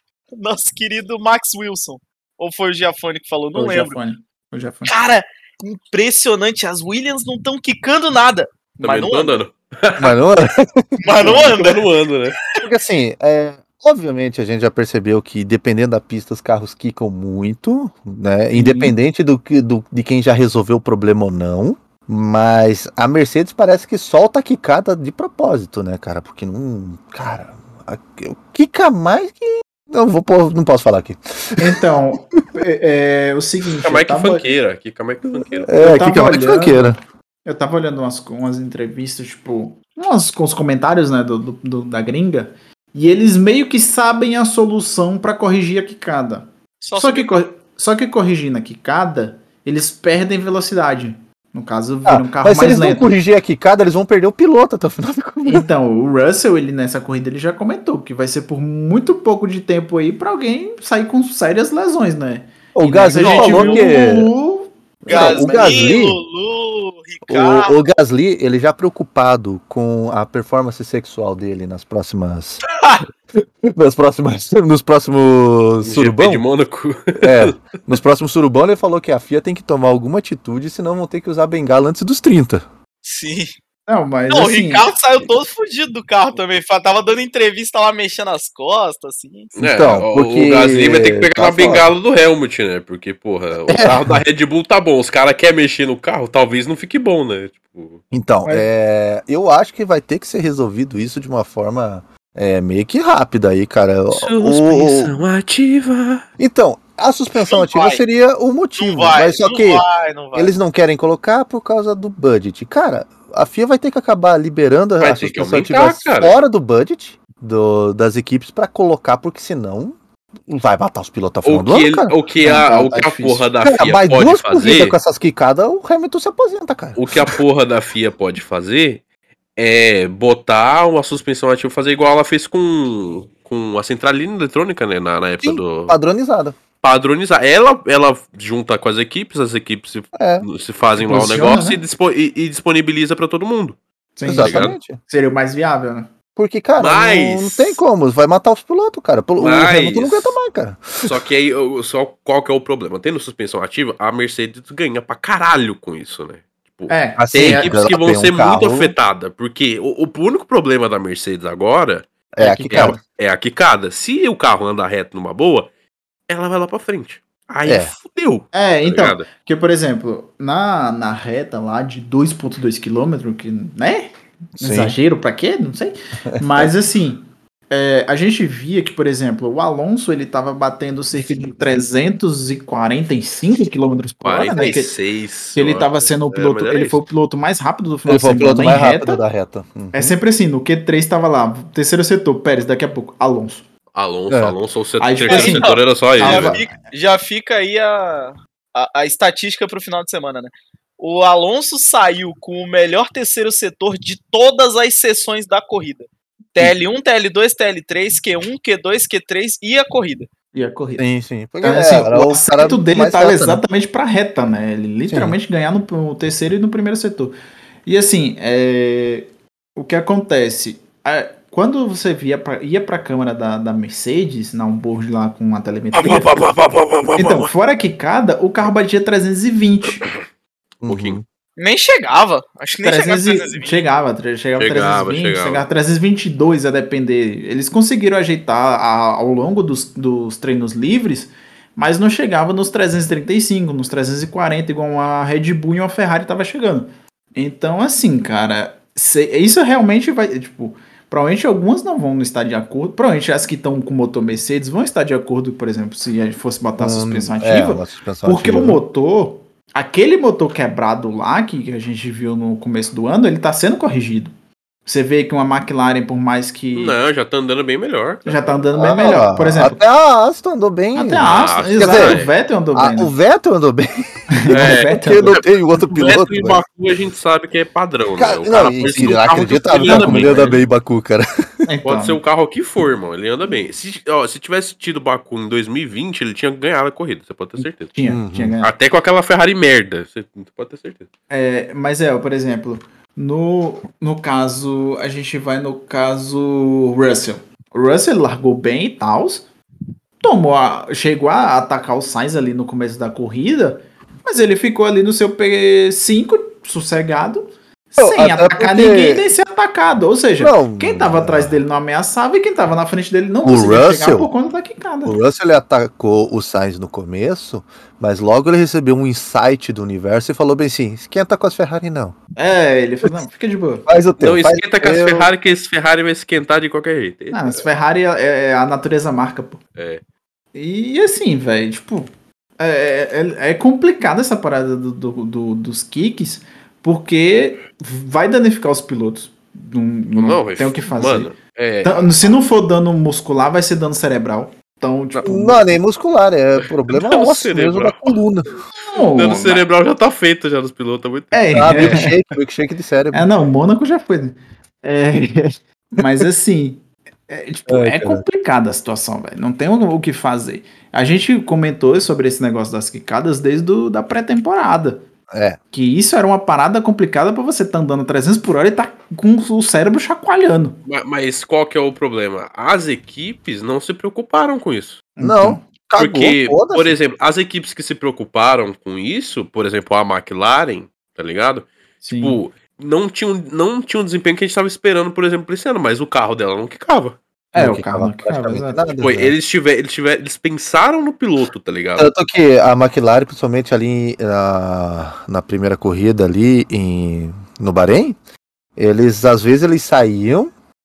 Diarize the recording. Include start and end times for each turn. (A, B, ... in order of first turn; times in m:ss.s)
0:00.3-0:04.0 A
0:03.5-0:04.9 B
0:04.8-0:09.4 A
0:08.8-0:10.1 C
0:10.0-0:11.4 D
0:11.0-0:11.8 A
0:11.2-0:12.4 C
0:12.6-0:31.8 D
0:18.5-0:18.9 B
0:31.6-0:34.4 B
0:33.8-0:35.8 C
0:35.4-0:37.0 D
0:35.8-0:36.9 B
0:37.4-0:53.1 B
0:46.8-0:47.3 A
0:52.0-0:55.7 D
0:55.4-1:05.4 B
1:02.7-1:04.3 D
1:03.1-1:03.8 A
1:05.0-1:06.2 D
1:05.1-1:07.8 A
1:07.3-1:12.6 D
1:13.3-1:16.4 D
1:15.8-1:17.6 C
1:17.2-1:22.6 D
1:23.0-1:23.5 A
1:23.9-1:24.9 B
1:24.3-1:29.5 A
1:29.6-1:31.9 D
1:29.6-1:38.0 C
1:33.7-1:34.2 D
1:38.1-1:45.1 D
1:44.1-1:46.2 C
1:46.4-2:03.0 D
1:47.4-1:48.0 A
1:48.8-1:50.5 A
1:55.0-1:56.4 C
2:01.4-2:05.0 C
2:02.4-2:03.4 B
2:03.6-2:07.4 D
2:07.0-2:09.0 C
2:09.6-2:16.0 C
2:15.4-2:16.6 D
2:16.8-2:24.8 C
2:20.1-2:20.5 D
2:21.0-2:21.8 B
2:24.2-2:26.1 B
2:24.2-2:25.0 D
2:26.4-2:31.1 D
2:26.8-2:27.8 C
2:29.4-2:30.4 C
2:31.0-2:42.1 C
2:36.9-2:37.7 B
2:37.2-2:38.9 D
2:42.4-2:43.0 D
2:42.4-2:43.0 B
2:42.7-2:45.7 C
2:46.3-2:49.2 C
2:47.6-2:47.9 D
2:48.5-3:04.9 B
2:54.6-2:54.9 D
2:56.3-2:56.7 D
3:04.2-3:07.0 C
3:05.5-3:09.2 B
3:08.1-3:10.2 D
3:09.9-3:13.6 B
3:13.9-3:16.6 C
3:14.3-3:14.6 D
3:15.0-3:16.7 B
3:15.3-3:30.3 A
3:30.5-3:31.0 B
3:31.0-3:33.6 D
3:31.6-3:46.3 B
3:35.1-3:35.4 D
3:45.9-3:47.5 C
3:47.1-3:50.1 B
3:50.8-3:51.2 D
3:50.9-3:51.2 C
3:51.6-3:53.8 A
3:52.8-4:24.3 B
3:54.6-3:55.7 C
4:16.8-4:18.8 D
4:24.8-4:27.0 B
4:26.7-4:28.6 C
4:28.2-4:29.8 B
4:28.7-4:32.2 D
4:30.9-4:33.1 B
4:31.2-4:32.3 C
4:32.7-4:36.6 D
4:34.3-4:35.4 B
4:34.5-4:40.6 C
4:38.2-4:41.3 D
4:39.8-4:40.6 B
4:41.6-4:42.2 B
4:41.8-4:47.9 C
4:47.9-4:48.7 B
4:48.1-4:48.5 D
4:48.6-4:51.1 C
4:51.3-4:59.4 B
5:00.2-5:15.2 B
5:08.0-5:09.3 D
5:10.4-5:11.6 D
5:13.4-5:14.3 D
5:15.0-5:22.2 D
5:22.4-5:23.9 B
5:23.9-5:25.3 D
5:24.2-5:27.6 C
5:27.3-5:29.6 B
5:29.8-5:30.0 C
5:30.5-5:45.6 B
5:40.1-5:42.3 C
5:45.2-5:48.6 D
5:46.9-5:48.2 C
5:48.8-5:49.6 B
5:49.1-5:52.1 C
5:51.3-5:52.1 B
5:51.5-5:53.3 D
5:53.1-6:05.0 B
5:57.7-5:58.2 D
6:05.3-6:05.6 D
6:05.7-6:10.8 B
6:10.9-6:15.0 C
6:15.2-6:15.6 B
6:15.2-6:16.9 D
6:16.0-6:21.7 C
6:22.0-6:22.4 B
6:22.2-6:27.2 C
6:27.5-6:28.9 B
6:27.6-6:29.3 D
6:29.0-6:32.1 C
6:32.0-6:38.2 D
6:38.8-6:40.5 D